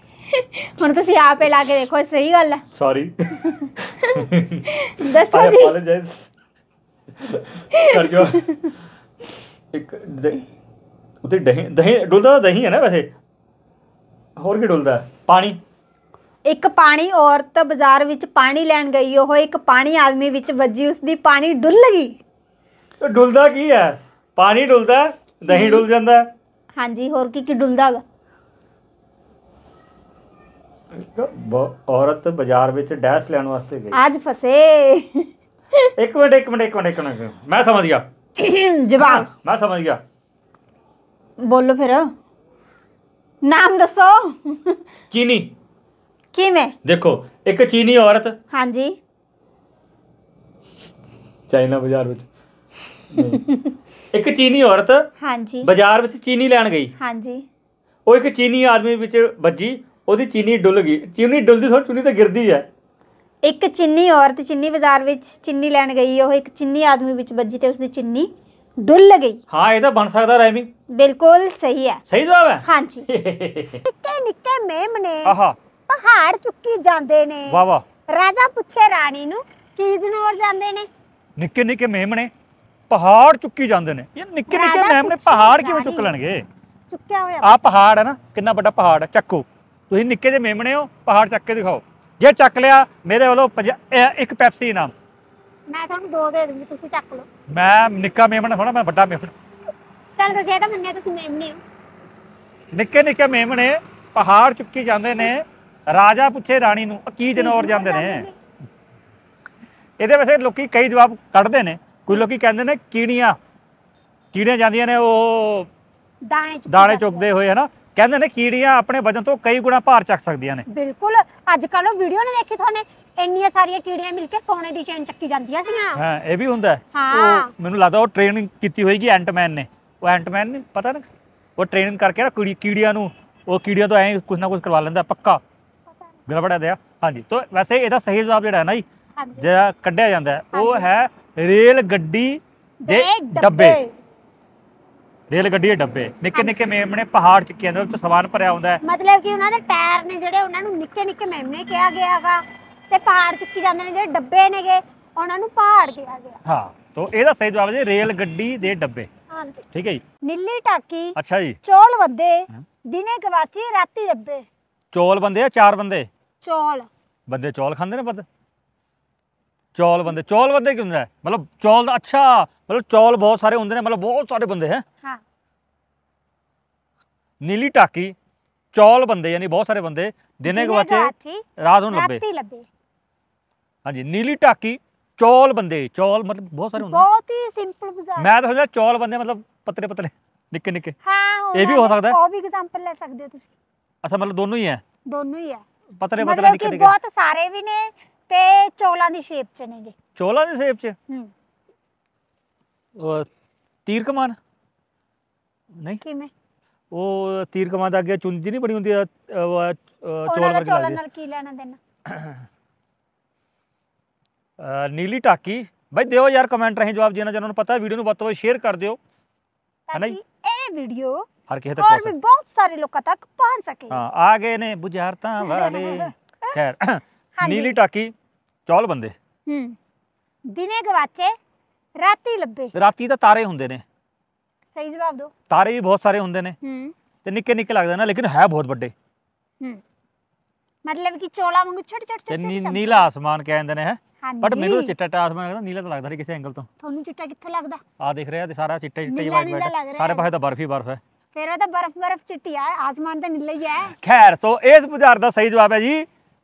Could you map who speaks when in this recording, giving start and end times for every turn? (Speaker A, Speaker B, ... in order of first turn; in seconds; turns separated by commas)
Speaker A: 0.3-2.6, Speaker B: 2.7-6.3, Speaker A: 3.5-5.7, Speaker B: 7.2-8.5, Speaker A: 7.7-8.7, Speaker B: 9.7-10.4, Speaker B: 11.2-13.1, Speaker B: 14.4-15.6, Speaker A: 16.4-22.2, Speaker B: 23.0-26.3, Speaker A: 25.5-25.8, Speaker A: 26.8-28.0, Speaker B: 30.9-34.0, Speaker A: 33.9-35.9, Speaker B: 36.0-38.0, Speaker A: 38.4-39.3, Speaker B: 39.0-40.0, Speaker A: 41.4-42.1, Speaker A: 43.4-44.8, Speaker B: 45.1-45.5, Speaker A: 46.3-46.7, Speaker B: 46.8-48.3, Speaker A: 48.5-48.9, Speaker B: 51.5-52.3, Speaker B: 53.1-53.4, Speaker B: 54.1-55.0, Speaker A: 55.2-55.7, Speaker B: 55.6-56.9, Speaker A: 57.0-57.4, Speaker B: 58.0-62.6, Speaker A: 63.4-68.3, Speaker A: 68.8-69.4, Speaker B: 69.5-70.7, Speaker A: 70.9-72.0, Speaker B: 72.1-73.8, Speaker A: 72.6-73.1, Speaker A: 73.8-75.3, Speaker B: 75.2-75.5, Speaker A: 75.9-77.6, Speaker B: 77.5-77.8, Speaker A: 78.1-80.9, Speaker B: 81.4-82.3, Speaker B: 82.9-86.4, Speaker A: 84.5-86.1, Speaker A: 86.9-87.5, Speaker B: 87.4-94.9, Speaker A: 95.7-97.3, Speaker B: 97.5-99.3, Speaker A: 100.2-101.6, Speaker B: 102.7-108.2, Speaker A: 107.3-108.3, Speaker B: 110.0-113.4, Speaker B: 114.3-115.7, Speaker A: 116.2-117.3, Speaker B: 116.7-120.6, Speaker A: 120.7-126.0, Speaker B: 126.0-135.4, Speaker A: 126.9-127.5, Speaker B: 136.3-138.8, Speaker A: 139.2-139.4, Speaker B: 139.4-143.8, Speaker A: 140.5-140.9, Speaker A: 142.8-143.9, Speaker B: 145.3-148.8, Speaker A: 146.3-146.7, Speaker A: 148.8-156.4, Speaker B: 156.4-159.1, Speaker A: 159.3-159.6, Speaker B: 159.7-160.0, Speaker A: 160.2-164.5, Speaker B: 161.2-161.6, Speaker B: 164.9-166.1, Speaker A: 166.4-166.9, Speaker B: 167.3-168.2, Speaker B: 169.8-174.8, Speaker B: 177.4-178.2, Speaker B: 178.7-182.2, Speaker A: 180.4-182.7, Speaker B: 183.8-187.0, Speaker A: 186.8-188.3, Speaker B: 188.2-190.9, Speaker A: 191.0-193.5, Speaker B: 191.5-192.2, Speaker B: 194.0-194.8, Speaker A: 195.1-195.6, Speaker B: 196.0-196.9, Speaker A: 196.2-199.9, Speaker B: 200.2-201.0, Speaker B: 203.0-203.3, Speaker B: 203.8-204.4, Speaker A: 206.0-206.3, Speaker B: 206.9-211.0, Speaker A: 210.3-211.8, Speaker B: 212.1-212.4, Speaker B: 214.6-219.0, Speaker A: 219.9-224.0, Speaker B: 221.5-222.1, Speaker B: 223.9-228.1, Speaker A: 225.4-226.6, Speaker A: 227.3-227.8, Speaker B: 228.7-229.1, Speaker A: 229.5-229.8, Speaker A: 230.5-231.3, Speaker A: 232.0-232.7, Speaker B: 232.7-233.8, Speaker A: 234.7-235.3, Speaker B: 235.5-236.6, Speaker A: 236.6-236.9, Speaker B: 237.2-238.9, Speaker A: 240.8-243.1, Speaker B: 242.3-246.7, Speaker A: 244.2-244.9, Speaker A: 246.8-247.8, Speaker B: 248.0-251.0, Speaker A: 249.0-250.3, Speaker A: 251.3-253.9, Speaker B: 254.0-256.1